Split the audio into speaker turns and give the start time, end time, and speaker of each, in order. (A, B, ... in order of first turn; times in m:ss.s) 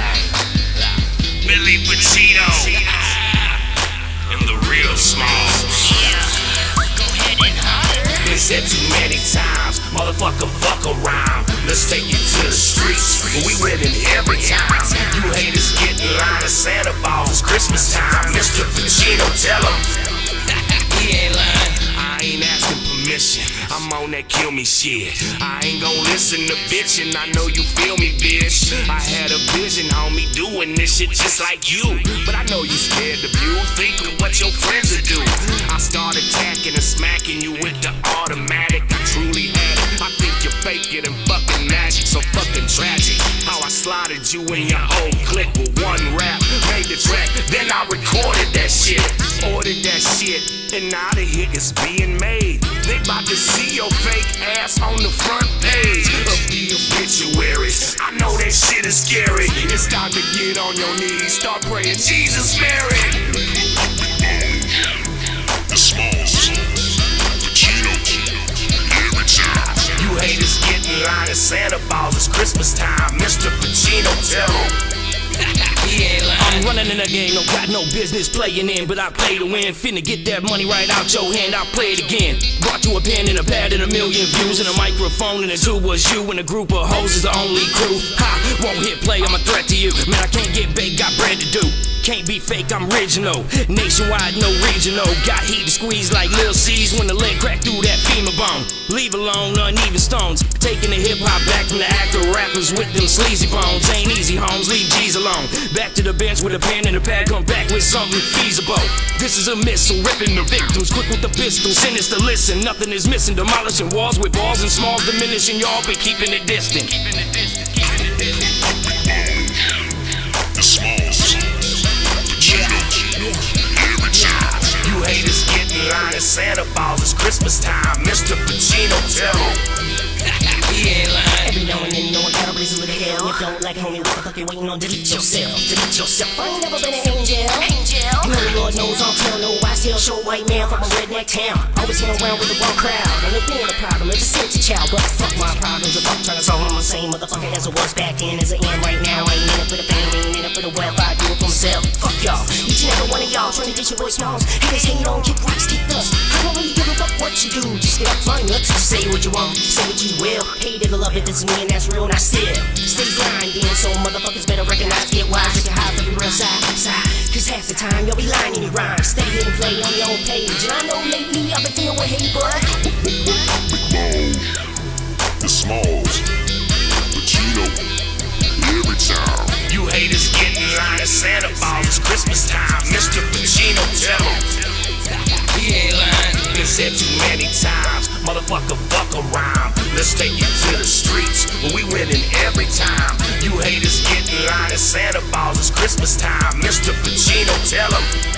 0:01.4-0:03.2 A
0:04.2-0:06.2 A
0:08.0-0:20.0 A
0:20.8-0:21.8 B
0:21.8-1:03.4 A
1:04.1-1:04.8 C
1:05.7-1:09.9 C
1:09.9-1:14.8 A
1:15.6-1:58.1 B
1:59.0-1:59.5 C
2:00.5-2:01.7 C
2:02.3-2:04.7 C
2:03.1-2:03.5 D
2:04.1-2:04.7 D
2:04.8-2:09.6 A
2:10.4-2:11.5 B
2:11.4-2:52.7 D
2:53.3-2:54.5 C
2:55.4-2:56.3 C
2:57.1-2:57.9 C
2:58.5-2:59.6 C
2:59.6-3:04.6 A
3:05.3-3:06.4 B
3:06.4-3:18.1 A